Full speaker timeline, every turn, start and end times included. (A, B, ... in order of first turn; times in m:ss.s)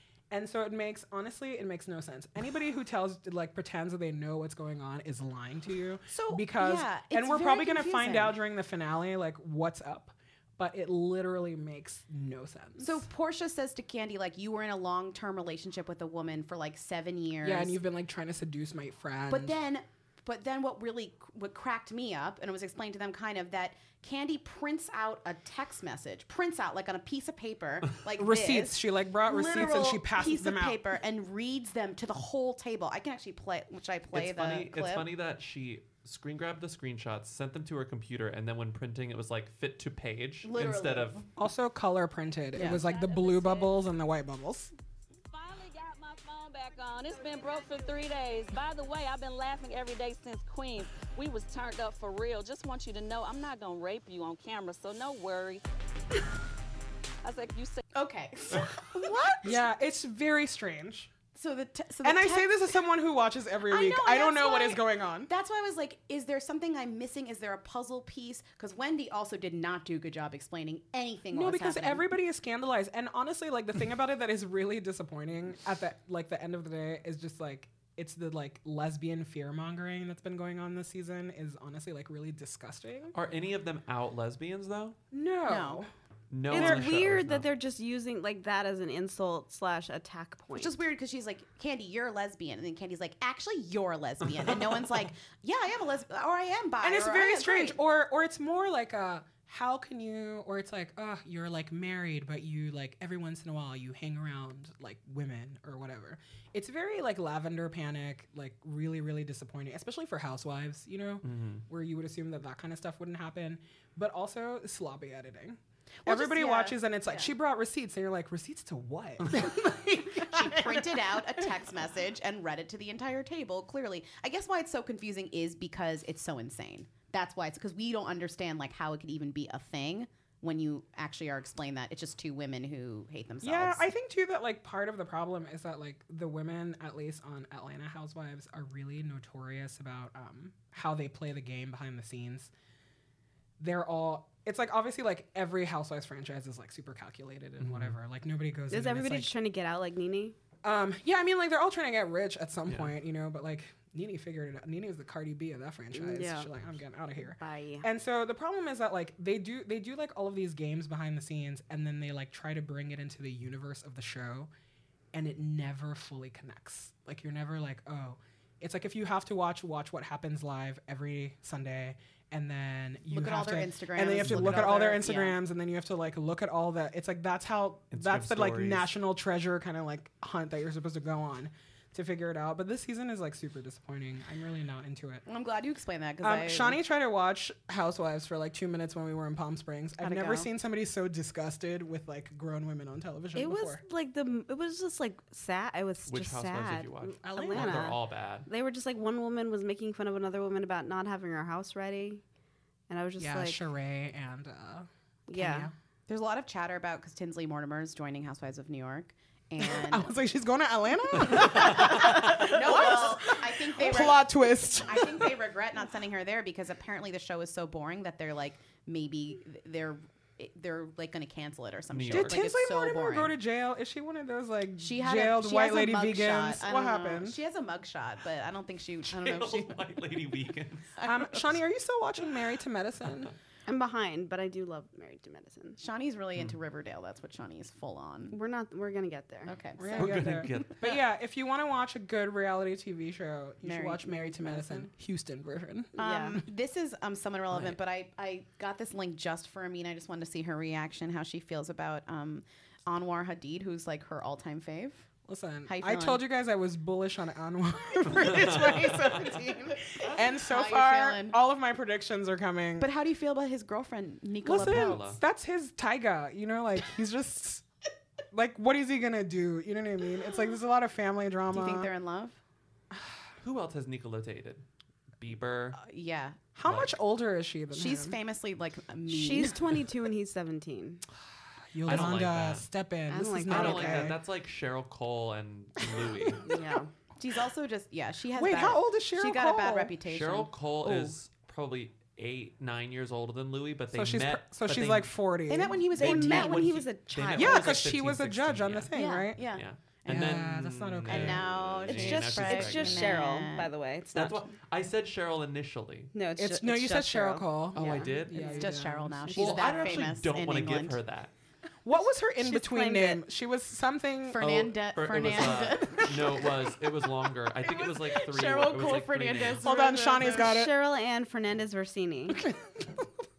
0:00.3-0:13.1 A
0:06.1-0:08.4 B
0:12.8-0:17.8 B
0:17.4-0:19.6 A
0:19.3-0:35.1 B
0:28.2-0:30.8 A
0:34.1-0:41.2 C
0:40.4-0:41.3 B
0:41.4-0:44.7 A
0:42.6-0:43.8 D
0:45.3-0:55.6 D
0:57.2-0:57.8 D
0:57.9-0:59.5 B
0:59.4-1:01.1 A
1:01.4-1:02.7 B
1:02.0-1:05.3 A
1:03.7-1:12.1 B
1:11.3-1:23.1 A
1:23.1-1:25.0 C
1:25.1-1:25.9 A
1:25.5-1:25.8 B
1:26.3-1:27.5 C
1:26.5-1:30.7 E
1:26.5-1:27.0 A
1:30.5-1:37.8 B
1:36.8-2:01.7 A
1:51.2-1:51.6 C
1:56.1-1:57.3 B
2:00.0-2:13.9 B
2:13.4-2:22.5 A
2:23.6-2:29.3 A
2:27.6-2:28.0 C
2:28.7-2:30.4 E
2:30.6-2:44.5 A
2:32.7-2:32.9 C
2:35.9-2:36.5 E
2:37.4-2:37.9 E
2:45.1-3:05.2 A
2:53.1-2:55.4 B
2:54.2-2:54.8 C
2:57.9-2:58.9 C
3:05.3-3:06.8 B
3:06.2-3:13.8 A
3:10.0-3:10.5 B
3:13.4-3:22.2 E
3:16.1-3:18.5 C
3:17.2-3:17.9 A
3:22.9-3:23.6 E
3:23.2-3:25.7 A
3:25.3-3:25.7 E
3:26.1-3:30.1 B
3:29.6-3:35.5 A
3:31.3-3:32.2 C
3:31.4-3:43.4 B
3:41.9-3:42.4 C
3:42.1-3:47.4 A
3:44.8-3:49.8 B
3:49.0-3:50.9 C
3:51.0-3:51.5 B
3:51.0-3:53.3 A
3:53.7-3:55.8 E
3:55.8-3:58.4 B
3:58.3-3:59.5 E
3:59.5-4:00.6 B
3:59.8-4:06.4 A
4:00.0-4:01.0 C
4:03.6-4:04.9 B
4:06.0-4:15.1 B
4:06.0-4:06.4 E
4:07.5-4:07.8 C
4:15.3-4:22.9 A
4:15.7-4:16.2 B
4:18.1-4:21.4 B
4:18.2-4:19.1 C
4:22.8-4:25.0 B
4:24.4-4:27.6 A
4:24.5-4:25.2 C
4:28.3-4:31.9 A
4:31.5-4:32.4 B
4:33.4-4:34.6 C
4:35.2-4:35.8 C
4:35.8-4:36.4 B
4:36.6-4:38.2 A
4:36.6-4:37.0 C
4:37.7-4:39.8 B
4:39.1-4:41.0 E
4:41.7-4:44.2 A
4:41.8-4:42.7 C
4:43.1-4:44.1 E
4:43.5-4:46.5 C
4:45.8-4:46.4 A
4:46.4-4:46.9 E
4:47.2-4:50.5 B
4:48.3-4:50.0 A
4:50.1-4:55.2 C
4:53.9-4:56.4 A
4:55.5-4:56.9 B
4:55.9-5:03.3 C
4:56.0-4:57.8 E
4:57.4-5:02.4 A
4:58.9-4:59.6 B
5:01.1-5:03.7 B
5:02.3-5:04.4 E
5:04.1-5:06.1 C
5:06.1-5:08.5 E
5:06.4-5:09.7 A
5:07.7-5:08.7 C
5:07.8-5:11.0 B
5:09.3-5:10.0 E
5:09.3-5:11.3 C
5:11.8-5:14.5 A
5:12.4-5:13.2 E
5:14.3-5:16.6 B
5:14.4-5:19.7 C
5:15.3-5:16.2 A
5:17.6-5:20.6 B
5:19.6-5:20.7 A
5:20.3-5:22.5 E
5:22.3-5:23.1 A